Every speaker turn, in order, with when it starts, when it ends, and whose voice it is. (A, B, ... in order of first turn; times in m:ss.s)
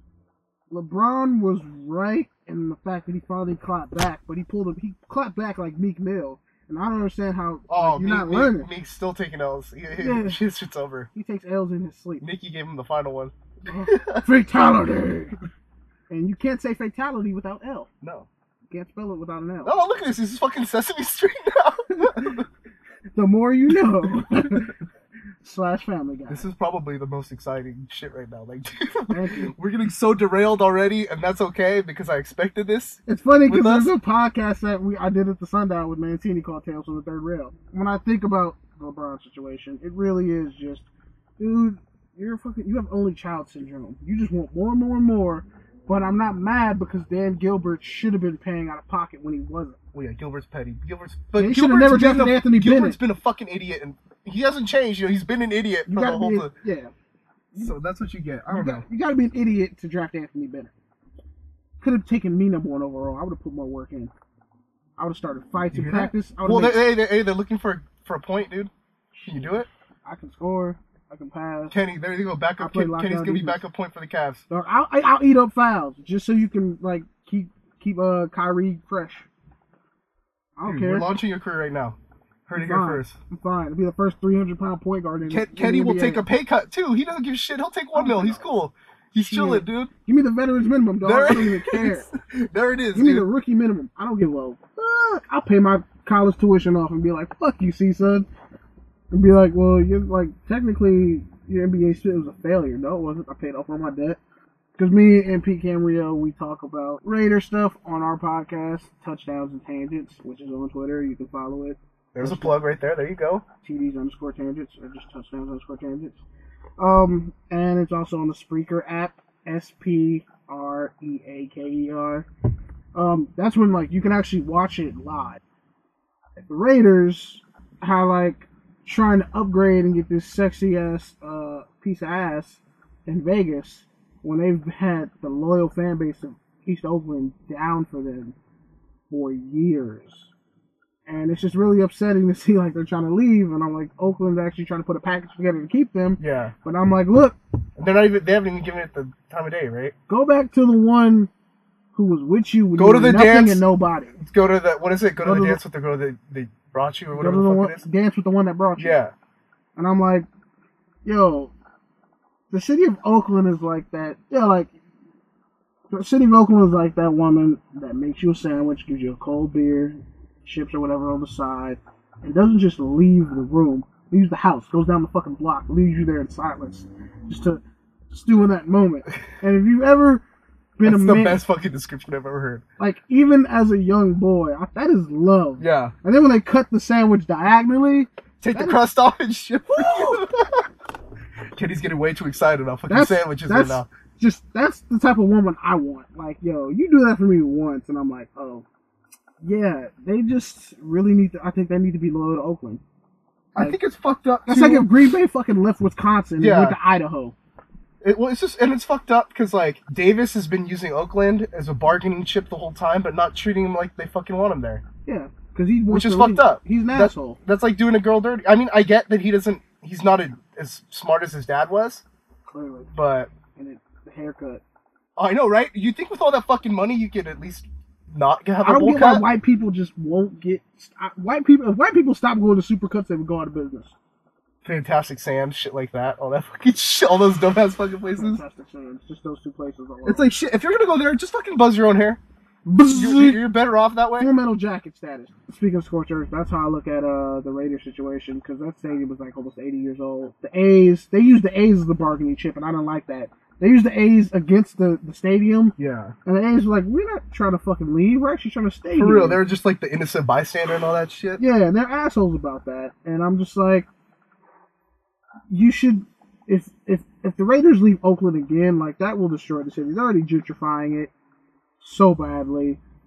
0:00.7-0:08.7 A
0:07.7-0:11.1 B
0:10.0-0:10.4 A
0:11.1-0:12.2 A
0:12.2-0:13.3 B
0:13.7-0:15.4 A
0:13.8-0:14.2 B
0:16.1-0:17.9 A
0:18.0-0:18.3 B
0:18.7-0:19.8 A
0:19.6-0:22.4 B
0:21.9-0:22.4 A
0:23.1-0:24.7 A
0:24.0-0:24.6 B
0:25.4-0:26.5 A
0:26.3-0:33.9 B
0:29.1-0:29.5 A
0:33.0-0:40.9 A
0:41.4-0:49.8 A
0:49.9-0:56.5 B
0:51.4-0:53.0 A
0:55.9-0:56.9 A
0:57.6-0:58.8 B
0:58.5-1:00.7 A
1:01.8-1:04.1 A
1:05.0-1:06.8 A
1:05.7-1:09.7 B
1:10.0-1:11.8 A
1:11.7-1:14.4 B
1:12.6-1:13.6 A
1:14.5-1:19.3 A
1:20.6-1:21.1 A
1:20.6-1:22.0 B
1:22.5-1:23.2 B
1:22.6-1:26.2 A
1:25.3-1:29.9 B
1:27.9-1:28.4 A
1:29.2-1:32.1 A
1:31.0-1:33.3 B
1:32.9-1:38.3 A
1:39.1-1:44.2 A
1:44.8-1:52.5 A
1:52.1-1:53.4 B
1:53.6-1:56.2 A
1:56.8-2:02.3 A
2:02.9-2:05.4 A
2:06.5-2:18.3 A
2:19.1-2:20.3 A
2:21.0-2:27.4 A
2:26.2-2:26.5 B
2:27.8-2:29.9 B
2:30.1-2:31.3 A
2:31.9-2:34.2 A
2:32.8-2:33.6 B
2:34.2-2:37.8 B
2:35.2-2:35.6 A
2:37.1-2:39.0 A
2:38.8-2:39.1 B
2:39.8-2:40.3 A
2:41.0-2:41.5 A
2:42.5-2:44.7 A
2:45.9-3:00.2 A
3:00.8-3:01.4 A
3:00.8-3:02.6 B
3:02.8-3:08.8 A
3:05.6-3:05.9 B
3:08.4-3:10.7 B
3:09.7-3:10.3 A
3:11.5-3:13.9 B
3:12.9-3:18.6 A
3:19.4-3:22.8 A
3:23.5-3:24.9 B
3:24.5-3:27.3 A
3:26.4-3:26.8 B
3:28.0-3:34.8 B
3:35.0-3:37.4 A
3:35.9-3:42.0 B
3:42.5-3:42.9 A
3:42.9-3:43.3 B
3:43.6-3:44.6 A
3:45.2-3:49.2 B
3:48.6-3:53.9 A
3:54.6-3:58.4 B
3:58.2-4:00.3 A
4:00.0-4:02.2 B
4:02.6-4:03.4 A
4:02.8-4:04.3 B
4:04.2-4:19.4 A
4:15.8-4:16.1 B
4:19.0-4:21.4 B
4:21.4-4:23.9 A
4:25.5-4:31.1 A
4:31.8-4:32.8 A